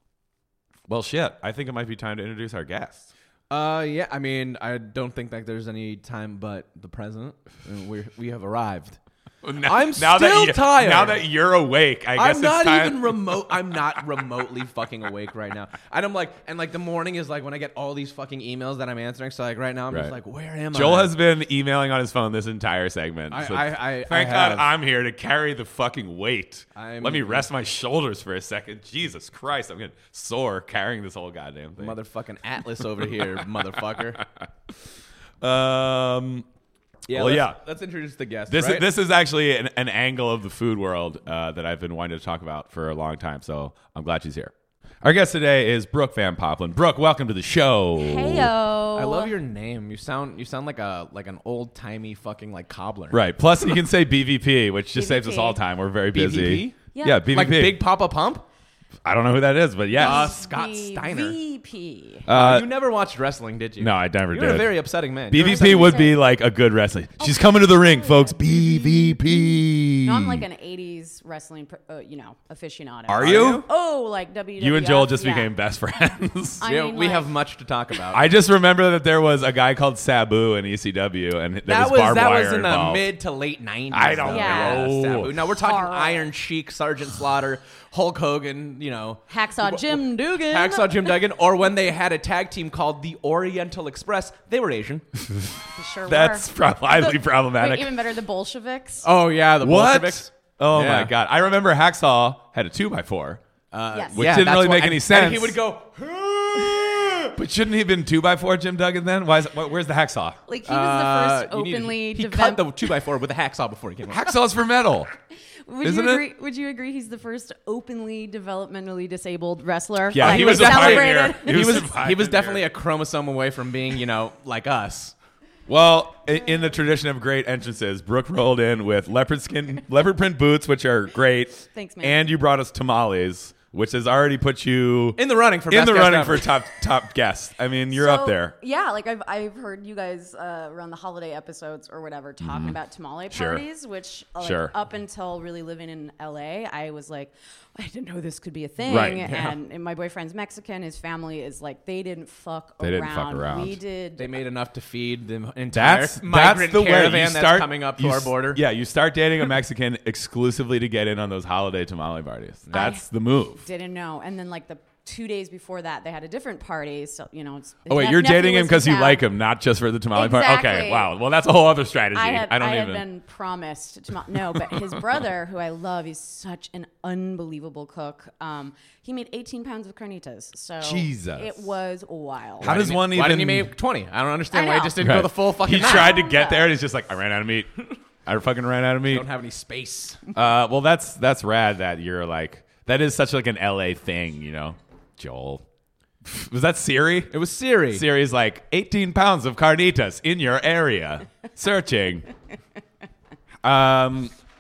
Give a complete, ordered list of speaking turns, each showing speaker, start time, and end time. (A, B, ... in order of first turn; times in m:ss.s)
0:00.9-0:03.1 A
0:03.5-0:09.0 B
0:09.4-0:13.4 A
0:09.6-0:11.2 B
0:12.2-0:21.1 B
0:19.9-0:20.2 A
0:20.7-0:32.0 A
0:23.3-0:24.7 B
0:26.7-0:27.5 B
0:31.8-0:34.2 B
0:34.2-0:34.5 A
0:35.4-0:36.5 A
0:37.1-0:38.9 B
0:37.1-0:37.6 A
0:38.5-0:48.5 A
0:48.0-0:49.3 C
0:49.0-0:53.2 B
0:53.1-0:57.8 A
0:55.0-0:55.6 C
0:56.1-0:58.4 B
0:56.9-0:57.2 C
0:59.0-1:00.4 A
0:59.9-1:02.3 C
1:00.0-1:01.4 B
1:02.3-1:02.7 A
1:02.3-1:06.1 B
1:03.8-1:10.5 A
1:05.4-1:06.2 C
1:07.2-1:15.5 C
1:13.1-1:13.7 A
1:13.2-1:13.7 B
1:14.6-1:16.6 A
1:16.6-1:17.4 C
1:16.6-1:18.2 B
1:18.1-1:23.1 A
1:21.7-1:35.0 B
1:23.9-1:25.3 A
1:24.3-1:24.9 C
1:25.4-1:26.3 C
1:29.3-1:31.2 C
1:35.2-1:38.0 A
1:35.7-1:39.1 C
1:39.0-1:41.1 B
1:39.6-1:43.4 A
1:43.7-1:47.3 B
1:43.9-1:44.2 C
1:44.1-1:45.6 A
1:46.8-1:50.4 A
1:50.5-1:52.9 C
1:50.6-1:54.3 B
1:54.1-1:55.1 A
1:55.6-2:01.9 C
1:55.8-1:56.3 A
2:00.1-2:02.7 A
2:00.2-2:05.2 B
2:05.7-2:18.6 A
2:11.7-2:12.3 C
2:15.2-2:16.5 B
2:17.9-2:34.4 C
2:22.4-2:22.8 A
2:23.3-2:23.6 A
2:24.4-2:24.7 A
2:28.9-2:29.3 A
2:29.0-2:29.6 B
2:32.8-2:33.8 A
2:34.2-2:38.6 B
2:35.7-2:43.6 A
2:42.7-2:43.1 C
2:43.6-2:49.2 C
2:47.9-2:53.0 A
2:50.1-2:51.1 C
2:52.1-3:02.7 C
2:54.5-2:55.0 A
3:00.8-3:01.6 A
3:02.6-3:03.7 A
3:02.6-3:06.2 B
3:04.5-3:05.1 C
3:05.0-3:09.3 A
3:05.7-3:06.7 C
3:09.1-3:10.3 B
3:10.3-3:15.6 A
3:16.2-3:17.4 A
3:17.3-3:18.1 B
3:17.9-3:22.3 A
3:23.6-3:24.3 A